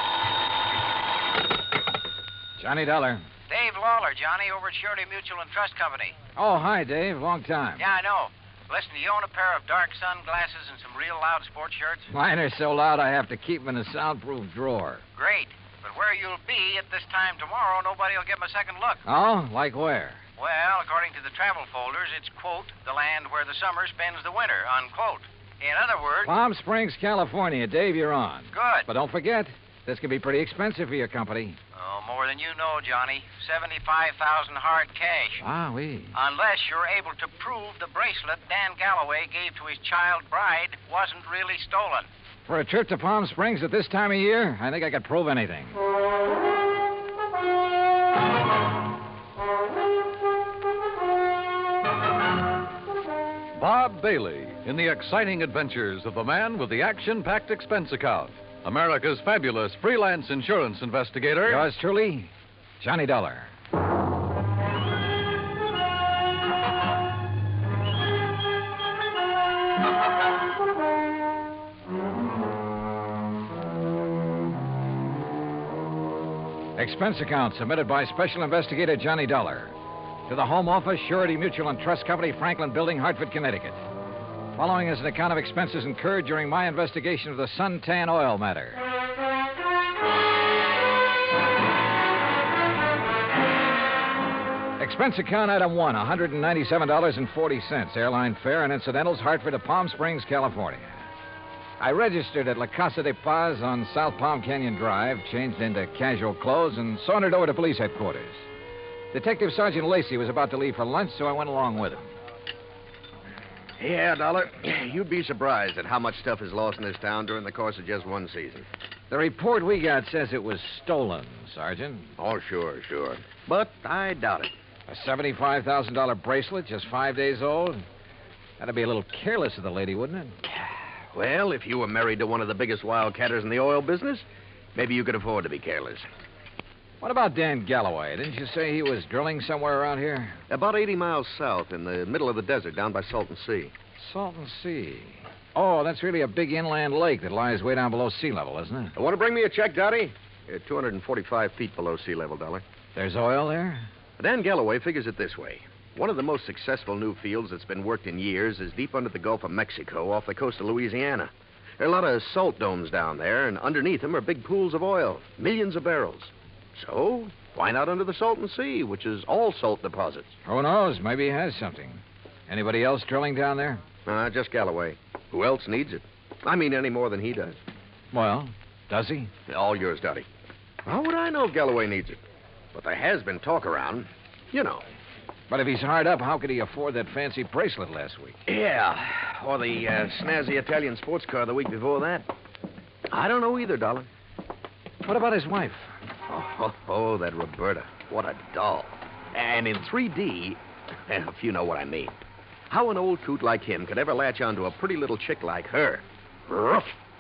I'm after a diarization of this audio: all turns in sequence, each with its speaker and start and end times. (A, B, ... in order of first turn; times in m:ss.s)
0:02.6-0:03.2 A
0:03.5-0:06.2 B
0:06.4-0:07.8 A
0:07.8-0:12.1 B
0:12.1-0:15.0 A
0:15.2-0:19.0 B
0:19.1-0:20.2 A
0:20.4-0:26.3 B
0:26.2-0:31.6 A
0:28.5-0:28.9 B
0:31.8-0:35.4 B
0:35.4-0:36.1 A
0:36.1-0:42.1 B
0:42.5-0:45.8 A
0:53.6-1:01.7 C
1:01.4-1:03.5 A
1:16.8-1:19.8 A
1:20.3-1:23.8 A
1:24.6-1:28.8 A
1:34.8-1:41.1 A
1:41.8-1:48.5 A
1:49.1-1:52.1 A
1:53.8-1:58.7 D
1:59.1-2:02.1 A
2:02.2-2:04.5 D
2:04.9-2:07.8 A
2:08.6-2:10.4 A
2:11.1-2:16.1 D
2:17.0-2:20.4 A
2:20.5-2:23.7 D
2:24.0-2:29.0 A
2:29.0-2:32.6 D
2:33.0-2:33.9 A
2:34.2-2:50.4 D
2:50.5-2:53.8 A
2:54.1-2:57.6 D
2:58.1-2:59.3 A
2:59.5-3:00.3 D
3:00.8-3:02.2 D
3:02.7-3:04.8 D
3:05.5-3:08.4 A
3:08.5-3:12.3 D
3:13.1-3:14.1 D
3:15.0-3:16.0 A
3:16.3-3:22.2 D
3:22.7-3:27.0 D